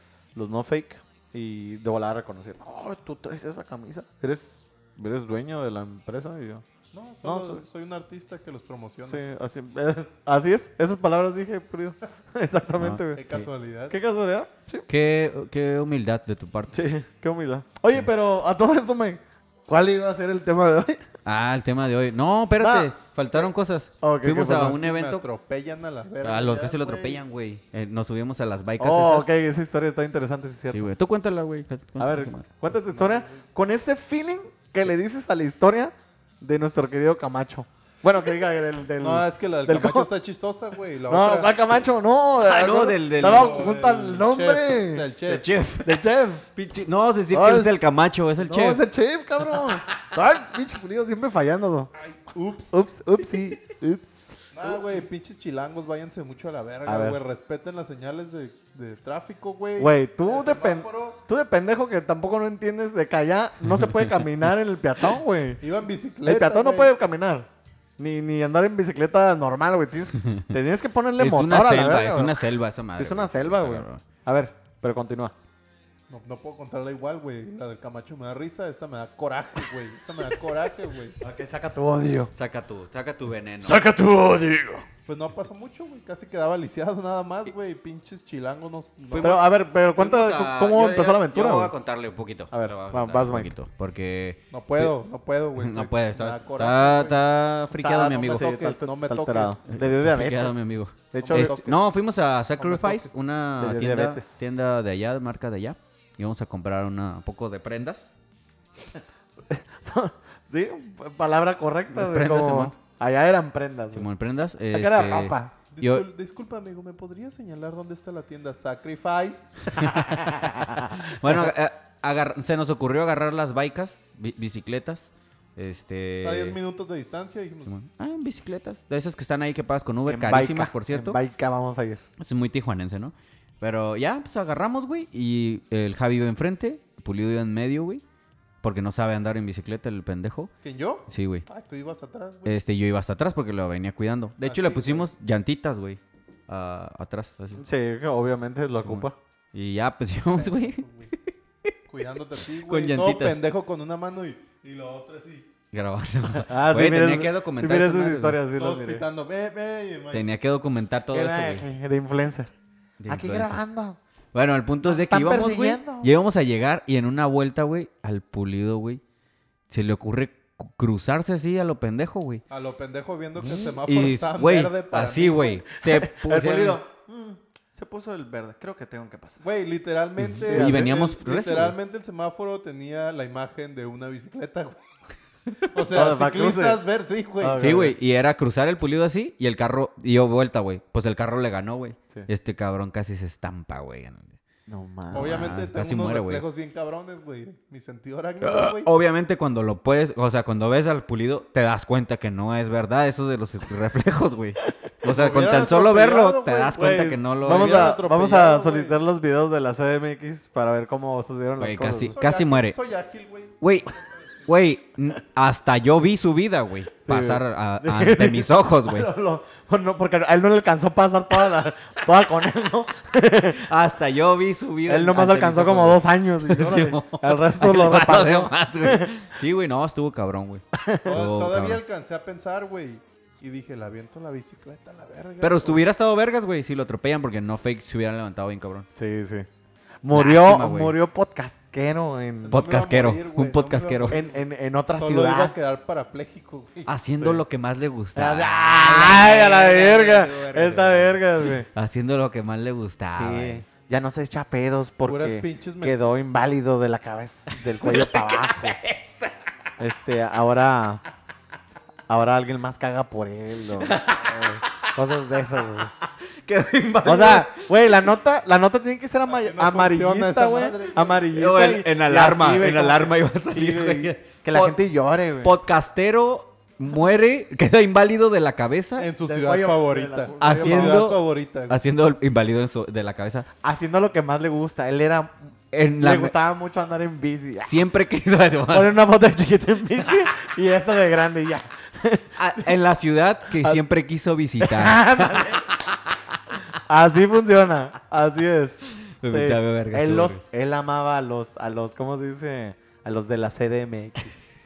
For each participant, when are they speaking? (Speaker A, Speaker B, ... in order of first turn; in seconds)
Speaker A: 0.3-6.6, 7.2-7.6, 9.1-14.9, 16.7-21.0, 22.6-23.4, 24.0-24.8, 28.8-30.9, 32.0-40.1, 41.1-45.1, 45.8-46.5, 47.3-47.8, 48.4-51.9, 52.7-55.0, 56.9-57.2, 59.8-65.6, 66.2-72.4, 72.9-75.3, 81.2-82.3, 83.6-84.8, 89.2-91.7, 92.5-93.5, 97.8-100.6, 101.1-101.7, 103.6-104.4, 109.5-114.1, 114.7-115.5, 119.9-121.4, 130.1-132.0, 147.6-149.2, 156.3-159.0, 161.1-162.5, 163.1-164.0, 164.8-166.1, 175.8-179.4, 180.4-180.9, 185.8-186.8, 187.4-187.9, 194.7-195.6, 206.7-212.1, 217.1-223.7, 224.9-229.1, 230.7-231.2, 238.9-239.5, 240.0-242.6, 244.1-245.5, 248.2-251.7, 253.1-258.8, 259.8-261.0, 262.1-265.9, 267.0-275.5, 279.2-281.1, 283.6-285.4, 286.0-287.8, 288.7-292.8, 293.5-293.8, 294.6-295.8, 296.7-304.4
Speaker B: 6.9-9.2, 13.1-13.9, 24.4-27.2, 32.8-33.3, 39.0-41.5, 43.1-45.5, 52.0-52.8, 54.5-61.2, 65.6-66.9, 76.1-81.2, 85.0-89.4, 94.5-97.3, 97.8-99.6, 101.2-101.8, 102.6-103.2, 115.7-119.9, 126.2-127.7, 140.6-142.6, 144.4-145.1, 150.3-151.1, 151.9-155.5, 158.5-160.2, 172.5-175.8, 179.4-184.8, 185.7-187.7, 195.1-198.9, 205.0-209.0, 212.1-214.5, 231.0-235.8, 242.4-246.9, 255.1-256.0, 269.2-271.3, 279.0-281.8
Speaker C: 14.9-16.8, 21.2-25.2, 26.2-29.3, 30.7-32.5, 42.4-43.6, 45.3-48.8, 63.8-64.1, 70.2-70.5, 71.2-74.0, 82.3-83.8, 89.1-94.9, 95.6-98.5, 99.7-108.1, 111.9-112.7, 113.9-116.0, 119.7-126.6, 127.6-131.2, 132.2-138.0, 138.6-140.5, 141.1-141.4, 142.4-147.6, 148.8-151.7, 152.6-153.4, 155.7-158.4, 160.1-161.7, 163.0-163.6, 164.3-169.0, 169.7-172.4, 173.4-176.8, 180.2-181.7, 187.6-194.4, 195.1-196.4, 198.4-207.9, 211.6-212.8, 213.6-213.9, 214.5-219.1, 223.5-231.8, 235.4-238.9, 240.1-240.9, 242.5-244.2, 246.8-253.6, 257.7-259.3, 263.8-264.9, 266.0-267.9, 271.3-274.8, 275.4-279.1, 280.4-283.5, 285.7-286.3, 287.6-288.9, 292.4-295.8, 299.0-300.4